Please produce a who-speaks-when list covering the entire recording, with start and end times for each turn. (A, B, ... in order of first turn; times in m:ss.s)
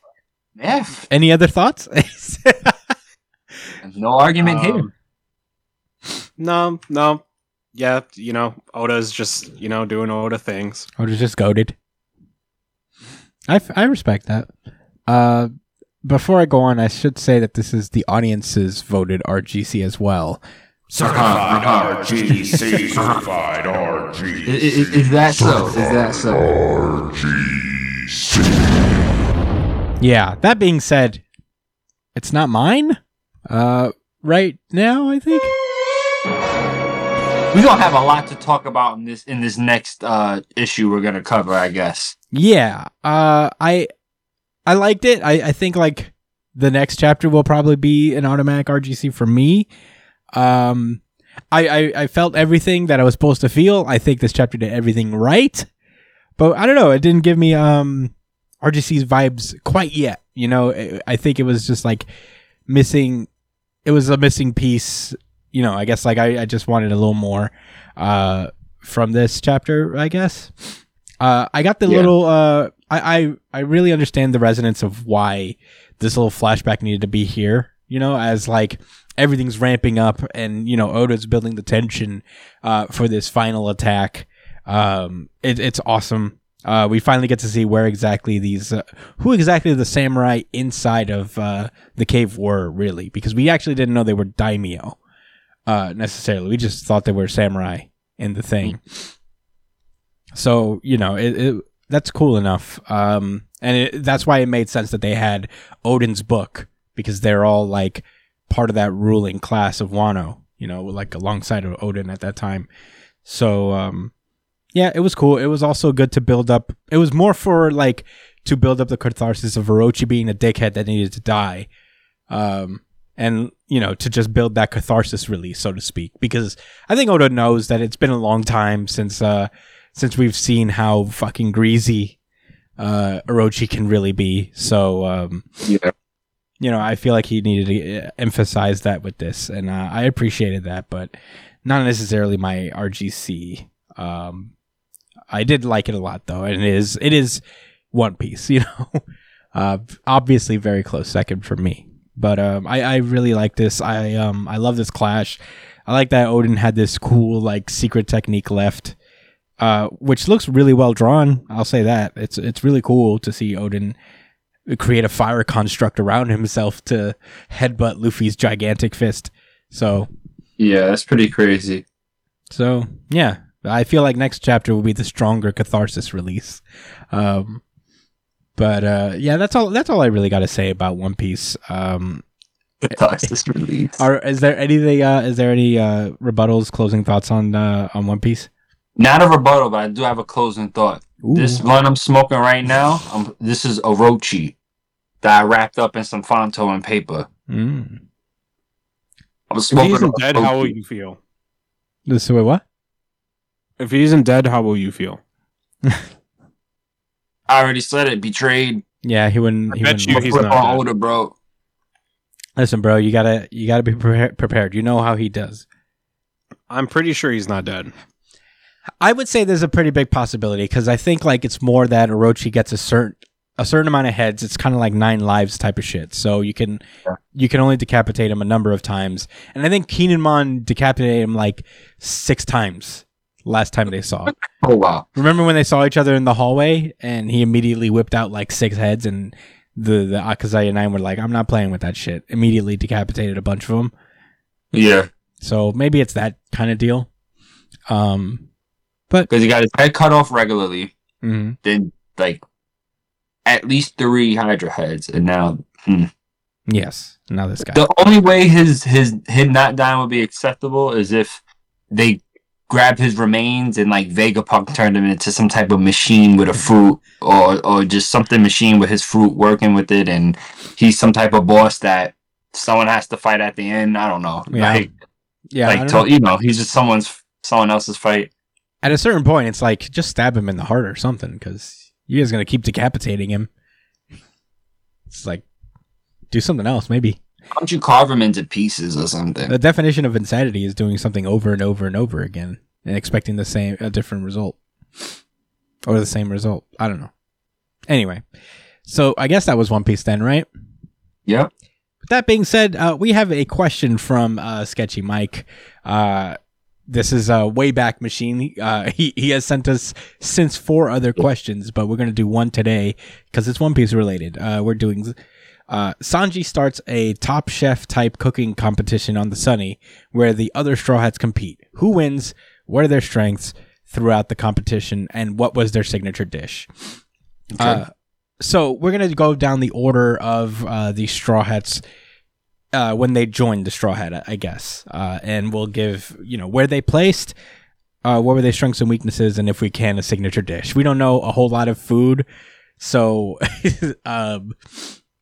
0:00.6-0:01.0 A
0:01.1-0:02.8 B
0:03.8-0:04.9 A
0:04.4-0:04.9 C
0:06.4-0:07.2 C
0:07.7-0:10.9 C
0:11.0-0:11.7 B
0:13.5-0:14.5 B
0:15.1-0:15.5 B
0:16.0-0:20.4 B
0:20.9-0:28.6 D
0:21.0-0:22.1 A
0:23.0-0:23.2 A
0:24.4-0:26.4 A
0:30.0-0:31.2 B
0:32.1-0:35.5 B
0:37.5-0:42.1 A
0:42.3-0:43.9 B
0:44.6-0:49.7 B
0:50.3-0:55.7 B
0:56.4-1:02.0 B
1:02.7-1:03.3 B
1:03.8-1:35.0 B
1:35.7-1:38.9 B
1:40.3-1:52.7 B
1:53.2-1:54.1 B
1:54.7-2:01.7 B
2:02.3-2:12.2 B
2:12.8-2:15.5 B
2:15.6-2:15.9 A
2:16.6-2:21.1 B
2:21.6-2:24.5 B
2:25.3-2:29.0 B
2:29.5-2:38.9 B
2:39.6-2:44.0 B
2:44.7-2:50.1 B
2:50.6-2:51.8 A
2:52.5-2:57.6 B
2:58.6-3:02.2 B
3:02.8-3:04.0 A
3:04.0-3:08.5 B
3:09.0-3:14.5 A
3:11.2-3:11.6 B
3:15.2-3:17.3 A
3:17.5-3:18.0 B
3:19.5-3:20.7 A
3:19.7-3:21.2 C
3:22.1-3:22.6 B
3:23.8-3:25.2 C
3:27.5-3:28.8 A
3:29.0-3:30.4 B
3:29.7-3:30.8 C
3:30.1-3:31.3 A
3:32.6-3:35.6 B
3:36.7-3:37.9 C
3:39.0-3:46.8 B
3:47.3-3:54.3 B
3:54.5-3:55.0 A
3:55.1-4:03.9 B
4:04.7-4:05.1 A
4:05.4-4:07.1 B
4:07.9-4:08.4 B
4:09.3-4:10.9 A
4:11.2-4:11.6 B
4:11.6-4:12.4 A
4:13.4-4:16.1 A
4:16.7-4:17.8 B
4:17.7-4:21.4 A
4:21.9-4:34.9 A
4:34.5-4:34.8 B
4:35.5-4:36.1 B
4:35.6-4:38.3 A
4:38.8-4:43.5 B
4:45.1-4:45.4 B
4:46.3-4:47.2 B
4:47.5-4:49.5 A
4:49.5-4:55.0 B
4:55.8-4:57.1 B
4:57.9-4:58.2 B
4:58.8-5:00.5 B
5:02.0-5:06.4 B
5:06.9-5:15.1 B
5:15.7-5:26.9 B
5:27.5-5:31.8 B
5:32.7-5:37.3 B
5:38.0-5:42.2 B
5:42.8-5:44.9 B